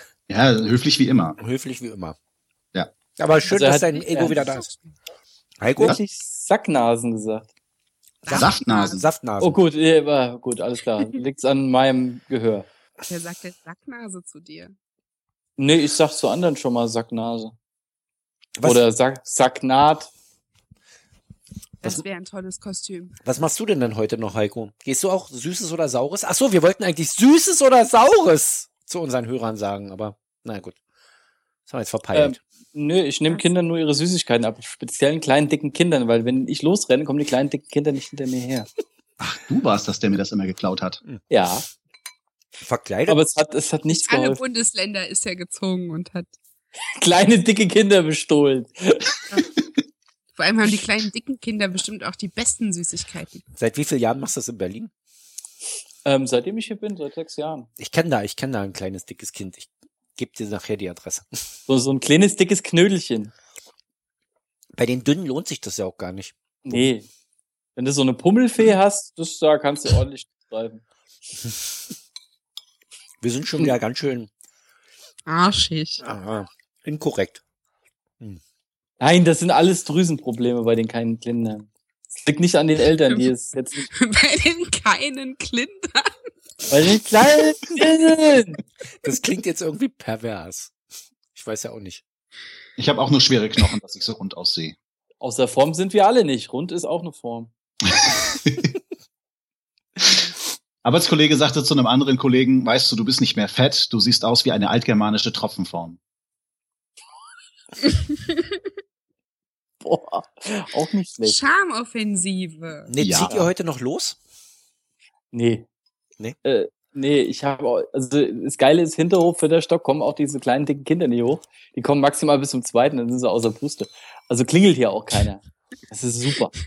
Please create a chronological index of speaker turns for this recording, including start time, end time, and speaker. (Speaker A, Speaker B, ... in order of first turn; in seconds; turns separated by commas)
Speaker A: 0.3-1.4, Speaker B: 1.4-2.1, Speaker B: 3.1-4.7, Speaker C: 3.5-4.3, Speaker D: 4.3-4.9, Speaker B: 5.6-6.0, Speaker C: 5.8-7.5, Speaker D: 8.2-9.0, Speaker B: 8.2-9.6, Speaker A: 8.3-9.0, Speaker C: 9.4-12.7, Speaker D: 13.1-14.7, Speaker C: 15.6-17.5, Speaker B: 18.6-18.8, Speaker C: 18.6-20.1, Speaker D: 21.8-23.1, Speaker B: 23.2-30.8, Speaker B: 31.6-32.4, Speaker C: 32.1-38.7, Speaker A: 39.2-41.0, Speaker C: 41.3-41.7, Speaker B: 42.6-43.2, Speaker C: 43.1-44.4, Speaker D: 44.0-46.3, Speaker C: 46.9-49.2, Speaker D: 50.3-53.4, Speaker B: 53.5-54.9, Speaker C: 56.0-57.7, Speaker B: 57.8-61.4, Speaker C: 61.7-63.3, Speaker B: 64.7-66.9, Speaker C: 66.6-67.1, Speaker C: 67.8-70.8, Speaker B: 73.2-74.3, Speaker D: 75.3-76.0, Speaker B: 76.0-77.4, Speaker C: 79.0-83.9, Speaker D: 84.0-86.1, Speaker C: 86.7-88.6, Speaker B: 89.0-90.7, Speaker B: 91.3-92.0, Speaker A: 92.8-94.7, Speaker C: 95.2-97.5, Speaker A: 97.8-98.7, Speaker A: 100.0-106.0, Speaker C: 109.8-111.4, Speaker D: 111.3-112.9, Speaker B: 112.9-114.2, Speaker A: 113.0-113.3, Speaker C: 115.3-115.7, Speaker C: 116.4-126.5